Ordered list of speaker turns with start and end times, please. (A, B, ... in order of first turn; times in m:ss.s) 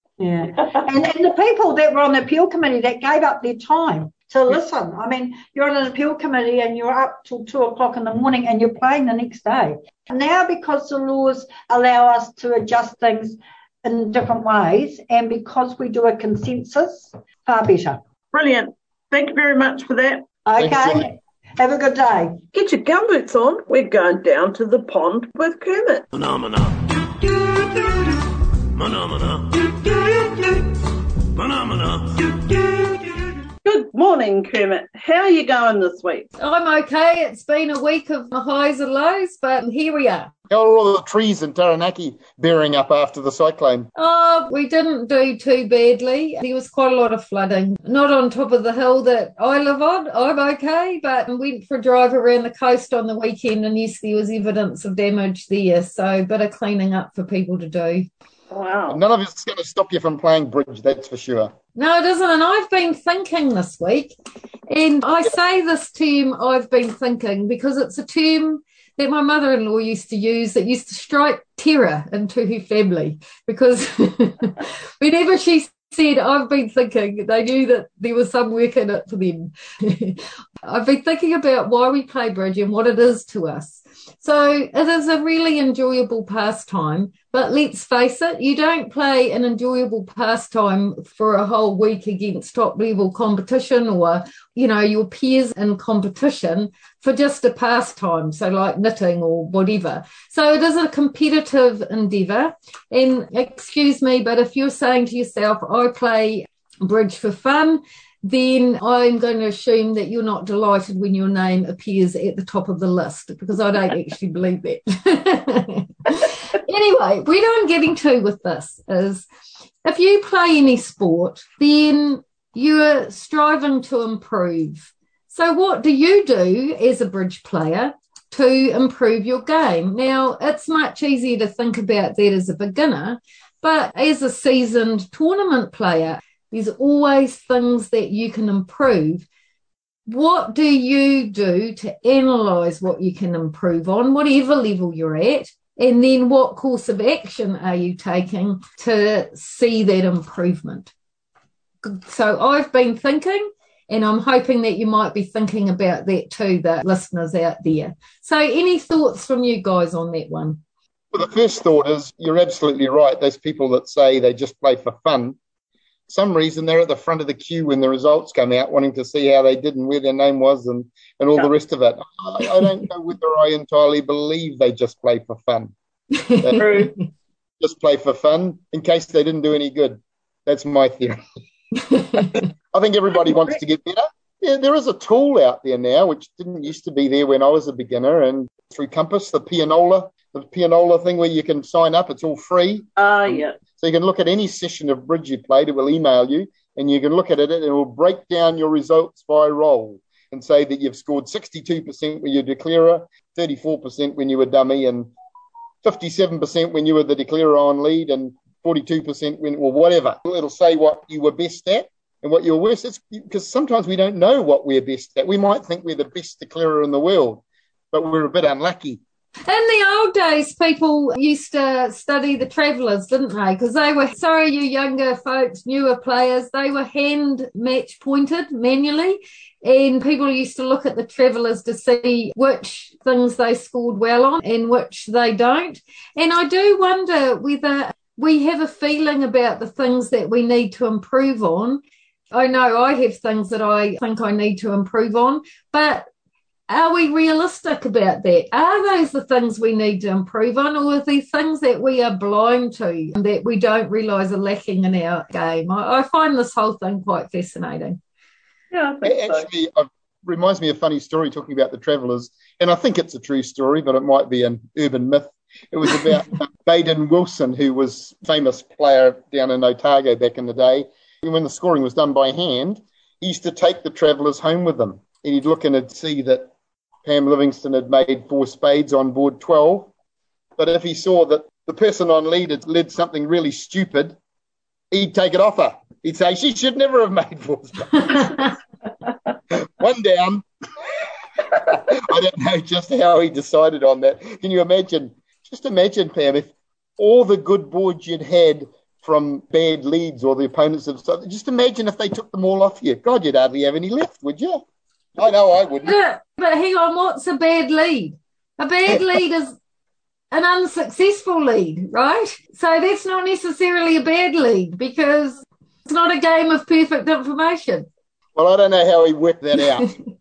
0:00.2-0:18.0 A
0:18.3-0:20.2 B
0:20.5-0:22.4 A
0:20.6-0:21.1 C
0:22.5-0:26.1 B
0:26.1-0:26.8 D
0:27.4-0:28.0 B
0:28.7-0:29.8 D
0:29.9-0:30.3 B
0:31.4-0:32.3 D
0:33.6-0:36.3 B
0:36.4-0:40.3 E
0:40.5-0:43.9 C
0:44.0-0:58.1 E
0:58.5-0:59.0 B
0:58.9-1:01.5 C
1:01.8-1:04.2 E
1:04.7-1:59.2 E
1:59.8-2:19.3 E
2:20.1-2:30.9 E
2:31.8-2:40.6 E
2:41.1-2:45.4 C
2:46.1-2:55.7 C
2:56.4-2:56.9 C
2:56.6-2:56.9 B
2:57.6-3:01.2 C
3:02.2-3:25.1 C
3:13.0-3:13.6 B
3:25.8-3:39.0 C
3:39.5-4:01.8 E
4:02.3-4:06.1 E
4:06.7-4:18.0 E
4:18.7-4:19.5 B
4:19.0-4:36.5 C
4:37.0-4:39.9 C
4:40.6-4:44.2 C
4:44.9-4:48.5 C
4:49.5-4:50.4 C
4:51.7-5:04.6 C
5:05.2-5:06.0 C
5:05.8-5:09.6 E
5:10.3-5:17.9 E
5:18.4-5:20.0 C